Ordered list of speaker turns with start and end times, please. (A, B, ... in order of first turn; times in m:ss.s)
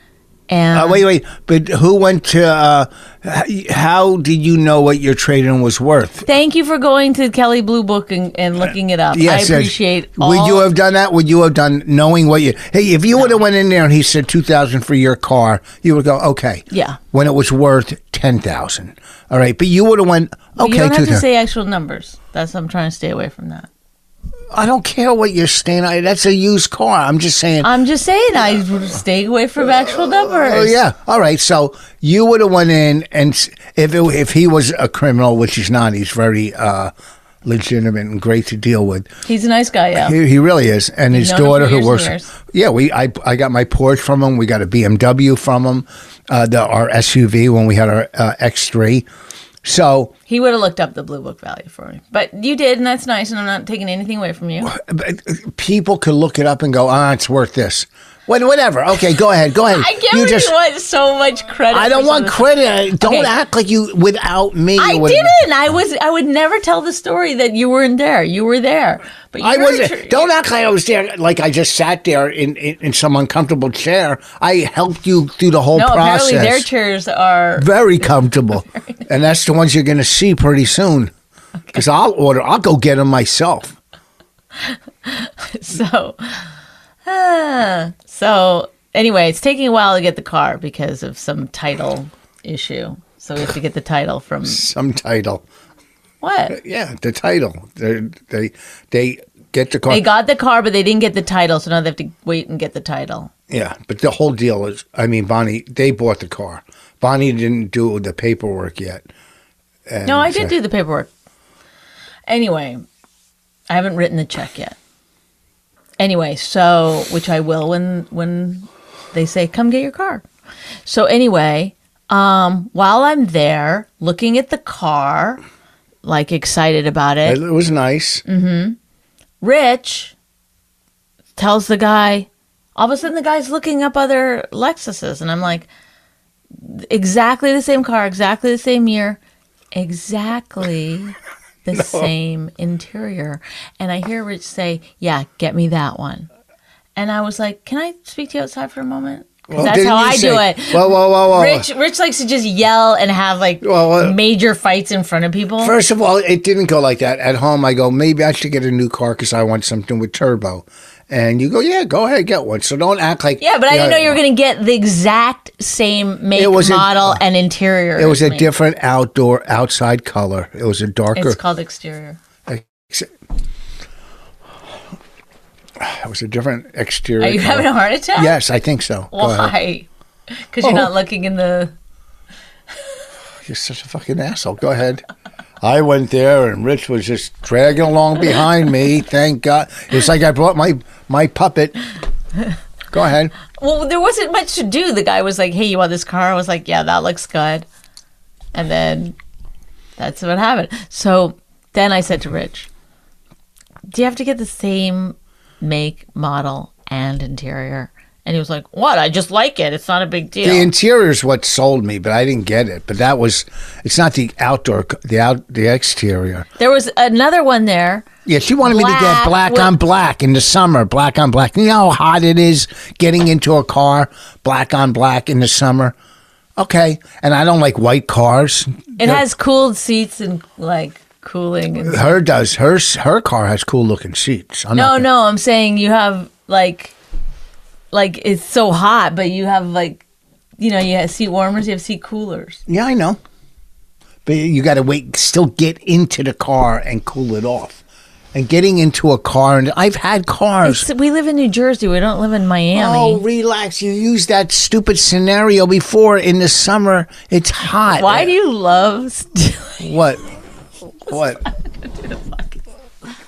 0:00.5-0:01.0 A
0:00.7-0:06.2 B
0:06.2-0:10.7 A
0:09.1-0:21.2 B
0:16.7-0:17.0 A
0:20.6-0:23.7 A
0:24.5-0:27.7 B
0:27.6-0:30.8 A
0:30.3-0:36.9 B
0:37.4-0:39.1 B
0:39.2-0:40.2 A
0:39.9-0:49.1 B
0:41.1-0:42.3 A
0:49.6-0:50.1 B
0:50.3-0:54.7 A
0:54.6-1:00.5 B
0:59.7-1:03.3 A
1:01.7-1:05.5 B
1:04.8-1:10.3 A
1:09.4-1:16.7 B
1:15.7-1:17.7 A
1:17.6-1:21.1 B
1:18.6-1:19.0 A
1:21.7-1:23.8 B
1:24.6-1:26.4 A
1:27.0-1:34.7 A
1:34.4-1:35.4 B
1:36.2-1:36.6 A
1:36.5-1:40.0 B
1:39.9-1:43.3 A
1:43.5-1:49.1 B
1:49.9-1:50.5 B
1:50.0-1:51.1 A
1:52.3-1:52.8 A
1:53.7-1:54.8 A
1:56.0-2:00.2 A
2:00.9-2:05.4 A
2:06.0-2:07.4 A
2:07.2-2:08.2 B
2:08.2-2:08.8 A
2:09.4-2:10.1 A
2:11.4-2:15.7 A
2:16.5-2:19.2 A
2:19.7-2:26.3 A
2:21.7-2:22.1 B
2:27.0-2:35.8 A
2:29.5-2:31.7 B
2:33.6-2:34.2 B
2:35.6-2:44.2 B
2:43.4-2:48.5 A
2:46.4-2:47.2 B
2:48.0-2:51.4 B
2:51.1-2:52.2 A
2:52.4-2:53.1 B
2:55.8-2:59.5 B
2:57.2-2:58.4 A
2:59.1-2:59.9 A
3:00.5-3:01.7 A
3:00.6-3:00.9 B
3:03.4-3:05.0 B
3:05.6-3:11.8 B
3:12.9-3:13.3 B
3:13.5-3:17.6 A
3:18.5-3:19.2 A
3:20.0-3:22.7 A
3:23.9-3:30.7 A
3:30.4-3:36.5 B
3:36.6-3:38.1 A
3:38.2-3:46.0 B
3:38.6-3:39.7 A
3:46.6-3:49.2 B
3:49.0-3:52.2 A
3:51.8-3:55.1 B
3:54.7-3:56.9 A
3:57.9-4:00.0 A
4:00.6-4:02.6 A
4:02.7-4:03.2 B
4:04.2-4:07.8 B
4:08.3-4:10.9 B
4:10.6-4:13.2 A
4:12.7-4:18.3 B
4:17.9-4:19.9 A
4:19.8-4:20.2 B
4:21.0-4:21.4 B
4:21.1-4:22.6 A